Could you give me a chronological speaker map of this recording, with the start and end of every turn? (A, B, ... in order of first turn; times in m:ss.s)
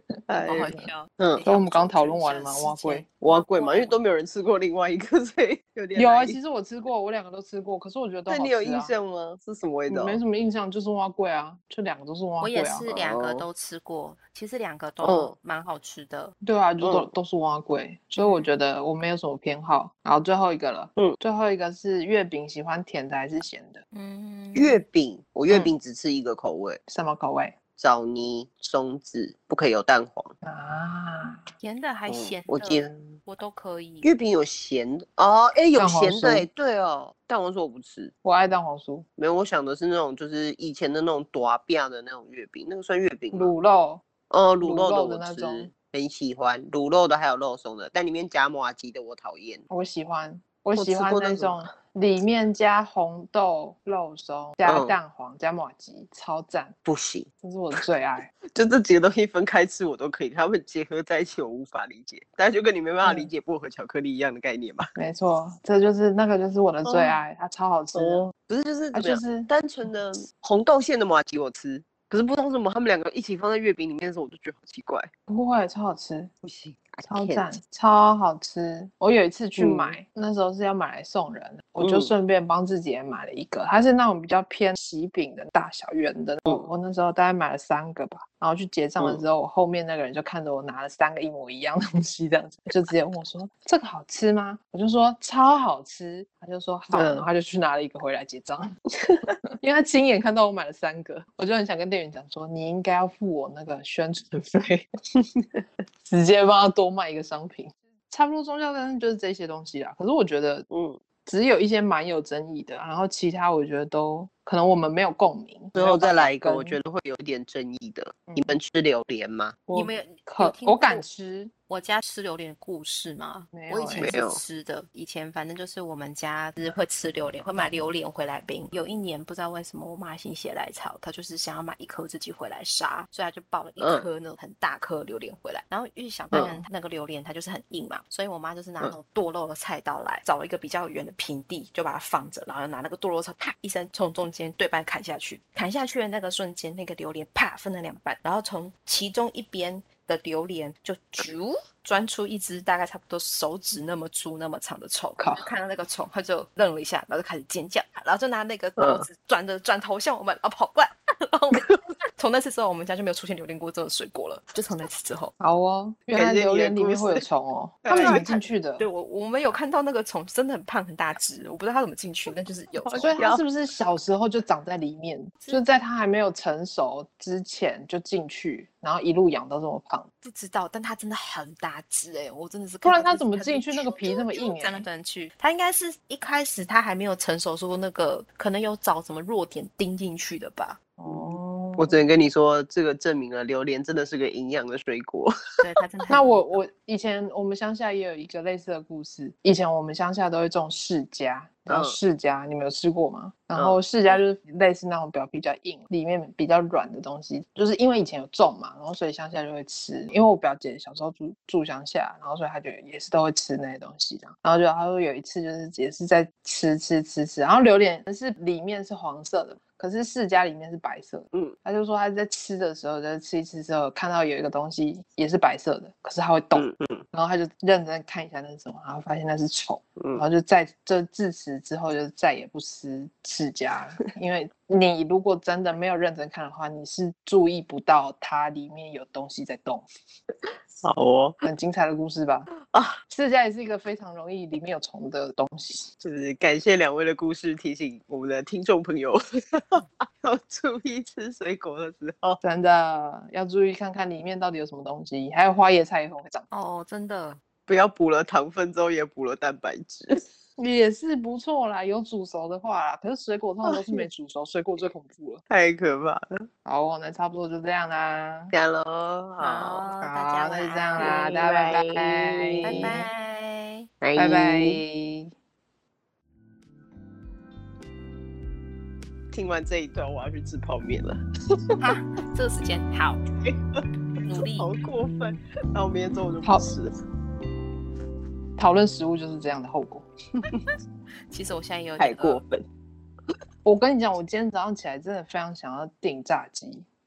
0:00.3-0:01.4 A
0:00.4-0:04.0 B
0:01.4-0:03.0 C
0:03.2-0:06.4 A
0:05.9-0:08.9 C
0:08.3-0:10.2 A
0:09.9-0:12.9 C
0:12.4-0:16.3 B
0:12.9-0:13.4 A
0:15.0-0:15.3 A
0:16.4-0:23.8 C
0:16.8-0:17.1 A
0:23.9-0:24.8 B
0:24.5-0:26.8 A
0:26.9-0:27.5 C
0:27.8-0:30.3 A
0:30.4-0:31.4 C
0:31.6-0:34.1 B
0:32.1-0:32.9 A
0:34.0-0:38.1 A
0:35.7-0:36.4 C
0:38.2-0:39.0 C
0:39.2-0:43.5 A
0:43.3-0:44.0 C
0:44.3-0:49.6 A
0:44.6-0:45.7 C
0:49.7-0:56.8 C
0:50.7-0:51.7 A
0:54.6-0:55.0 A
0:56.8-0:57.8 A
0:57.4-0:58.3 C
0:58.5-1:04.9 A
1:03.0-1:03.3 C
1:05.0-1:08.3 C
1:06.8-1:07.2 A
1:07.9-1:15.1 A
1:08.9-1:09.5 C
1:15.3-1:16.3 C
1:16.4-1:17.6 A
1:17.1-1:38.7 C
1:19.6-1:20.0 A
1:21.8-1:22.1 A
1:29.0-1:29.2 A
1:36.9-1:37.2 A
1:39.6-1:44.8 C
1:46.0-1:50.6 C
1:50.7-1:51.0 A
1:51.2-1:56.8 C
1:55.7-1:59.6 A
1:58.3-1:58.6 C
1:59.7-2:01.5 C
1:59.7-2:01.0 B
2:01.7-2:45.3 B
2:03.5-2:04.1 C
2:04.0-2:04.4 A
2:13.8-2:14.0 A
2:16.3-2:16.6 A
2:35.2-2:35.5 C
2:38.8-2:39.0 A
2:45.4-2:48.8 C
2:46.1-2:47.2 A
2:47.8-2:48.3 A
2:47.9-2:53.1 B
2:52.7-2:53.4 A
2:53.0-3:00.1 C
3:00.2-3:10.8 B
3:02.8-3:04.8 C
3:11.0-3:12.0 C
3:11.1-3:15.3 A
3:15.6-3:16.6 B
3:16.1-3:59.8 C
3:21.7-3:22.0 A
3:23.6-3:23.8 A
3:46.5-3:47.0 A
3:50.0-3:50.2 A
4:00.8-4:01.4 A
4:01.4-4:02.5 C
4:02.7-4:03.0 A
4:03.1-4:05.9 C
4:06.0-4:12.4 A
4:12.4-4:16.4 C
4:16.5-4:17.4 B
4:17.7-4:20.1 A
4:20.6-4:25.4 C
4:23.6-4:24.0 A
4:25.5-4:26.4 A
4:26.6-4:28.5 C
4:28.5-4:29.8 A
4:29.4-4:31.8 B
4:30.0-4:33.0 C
4:31.0-4:33.0 A
4:32.6-4:33.9 B
4:34.0-4:34.8 A
4:34.1-4:35.3 C
4:39.3-4:41.8 A
4:41.8-4:43.2 B
4:43.4-4:43.8 A
4:44.2-4:44.7 B
4:44.4-4:46.9 A
4:46.4-4:46.7 C
4:48.6-4:50.0 C
4:51.3-4:52.4 B
4:52.0-4:52.6 A
4:53.6-4:56.8 C